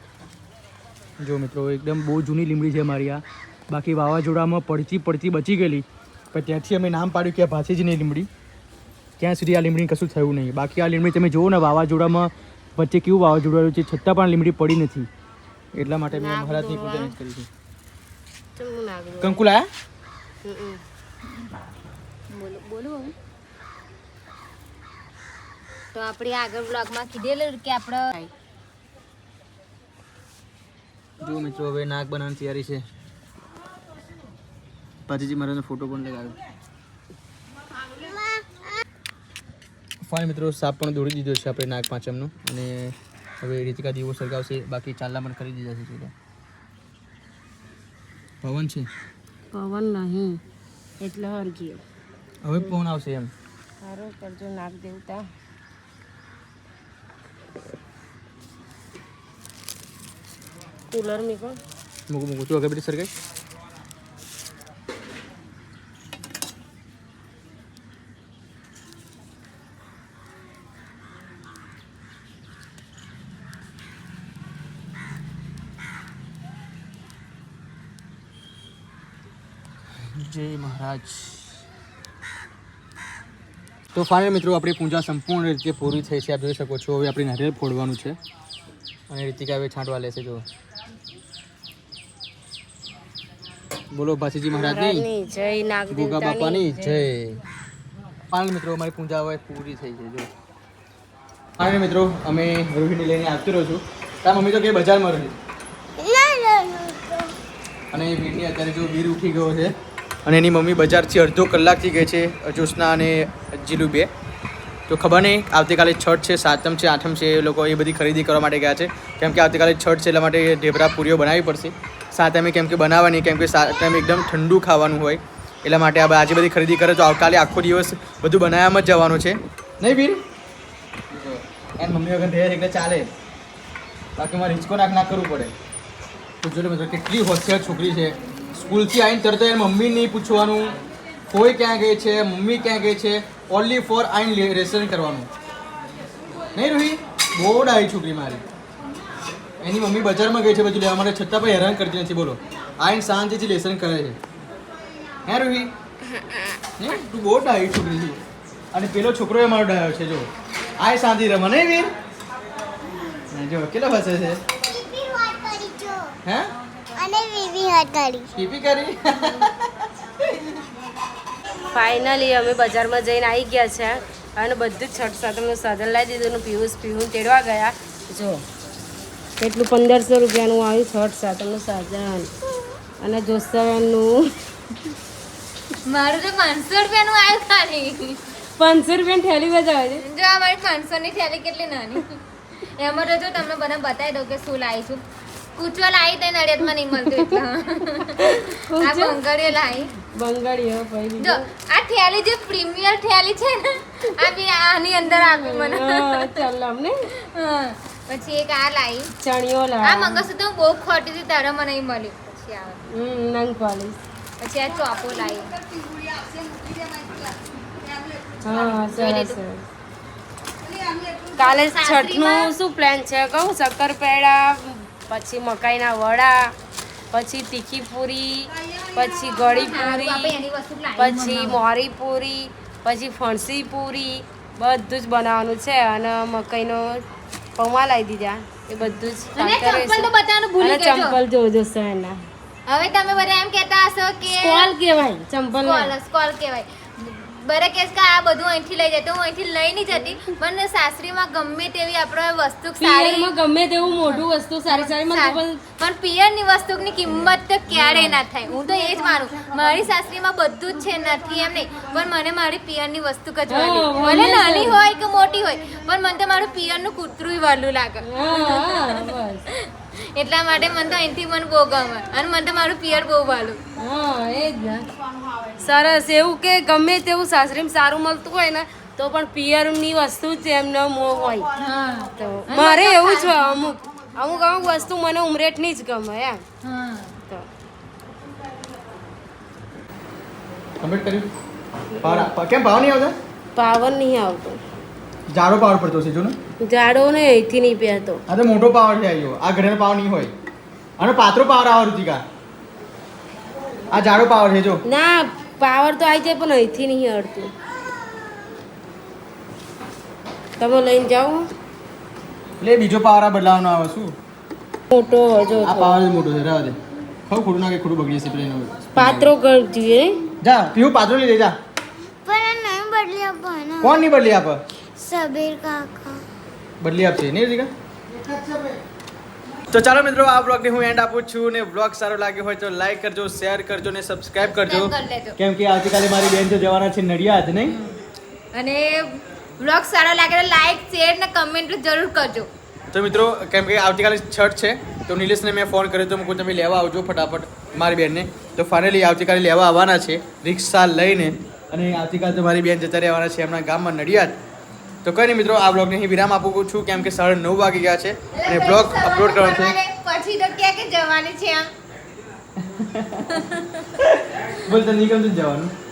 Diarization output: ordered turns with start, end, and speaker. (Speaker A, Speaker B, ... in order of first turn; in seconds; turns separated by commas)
Speaker A: 1.2-8.3, Speaker A: 9.2-15.1, Speaker A: 15.7-17.5, Speaker B: 16.1-17.1, Speaker B: 18.6-19.4, Speaker A: 19.2-19.7, Speaker B: 20.4-20.8, Speaker C: 22.3-23.1, Speaker C: 25.9-28.3, Speaker A: 31.2-32.8, Speaker A: 35.1-36.4, Speaker A: 40.0-46.1, Speaker A: 48.4-48.9, Speaker B: 49.5-50.4, Speaker B: 51.0-51.8, Speaker A: 52.4-53.3, Speaker B: 53.8-55.3, Speaker B: 60.9-61.6, Speaker A: 62.1-63.1, Speaker A: 80.1-81.6, Speaker A: 83.9-88.2, Speaker A: 89.1-90.4, Speaker A: 93.9-95.1, Speaker B: 94.5-97.0, Speaker A: 95.9-97.4, Speaker A: 98.3-100.3, Speaker A: 101.6-105.4, Speaker D: 106.0-107.3, Speaker A: 107.9-109.7, Speaker A: 110.2-114.1, Speaker A: 114.9-130.2, Speaker A: 131.1-133.1, Speaker A: 134.2-135.5, Speaker A: 136.4-140.7, Speaker A: 141.3-145.3, Speaker A: 146.5-148.4, Speaker A: 149.6-154.2, Speaker A: 155.2-155.7, Speaker D: 156.1-156.6, Speaker A: 156.8-158.2, Speaker A: 158.7-161.9, Speaker A: 163.3-164.4, Speaker D: 164.6-166.2, Speaker A: 166.2-166.5, Speaker D: 166.9-168.3, Speaker A: 168.3-170.5, Speaker B: 171.7-178.4, Speaker B: 179.4-182.3, Speaker B: 183.0-184.3, Speaker C: 185.8-188.2, Speaker B: 188.6-190.0, Speaker C: 190.0-195.0, Speaker C: 195.6-199.9, Speaker B: 198.1-199.2, Speaker B: 200.1-201.5, Speaker C: 201.2-206.4, Speaker B: 205.3-207.0, Speaker C: 207.3-209.1, Speaker B: 209.2-210.2, Speaker C: 209.8-212.8, Speaker B: 212.9-214.0, Speaker C: 214.4-215.6, Speaker B: 218.4-219.6, Speaker C: 218.5-219.4, Speaker B: 221.4-226.5, Speaker C: 221.4-222.5, Speaker B: 227.1-230.4, Speaker C: 229.3-231.6, Speaker B: 231.0-237.0, Speaker B: 237.6-240.1, Speaker C: 239.3-241.2, Speaker B: 240.6-242.2, Speaker C: 242.7-244.7, Speaker B: 244.2-245.9, Speaker C: 245.5-253.3, Speaker B: 252.8-255.6, Speaker C: 254.1-273.6, Speaker B: 257.7-258.2, Speaker B: 263.5-264.8, Speaker B: 268.0-269.4, Speaker B: 273.8-274.9, Speaker B: 275.5-281.5, Speaker C: 281.6-283.5, Speaker B: 282.2-286.4, Speaker C: 286.6-287.1, Speaker A: 290.8-291.3, Speaker B: 291.9-292.3, Speaker A: 292.0-293.1, Speaker B: 293.6-294.6, Speaker A: 295.3-296.4, Speaker B: 296.6-298.2, Speaker A: 298.3-300.3, Speaker A: 301.0-302.2, Speaker A: 303.9-304.8, Speaker B: 304.9-307.5, Speaker B: 310.6-311.5, Speaker A: 312.6-314.1, Speaker B: 314.9-316.0, Speaker A: 315.6-316.8, Speaker A: 317.3-319.3, Speaker B: 318.9-320.2, Speaker A: 320.4-321.6, Speaker D: 322.2-324.0, Speaker A: 323.8-324.6, Speaker D: 325.0-326.2, Speaker A: 326.8-327.7, Speaker A: 329.7-337.8, Speaker C: 334.4-335.4, Speaker C: 337.7-338.0, Speaker C: 338.5-342.5, Speaker A: 342.9-354.4, Speaker A: 355.0-359.8, Speaker C: 358.3-361.7, Speaker A: 362.6-363.4, Speaker C: 363.3-363.9, Speaker A: 364.0-365.7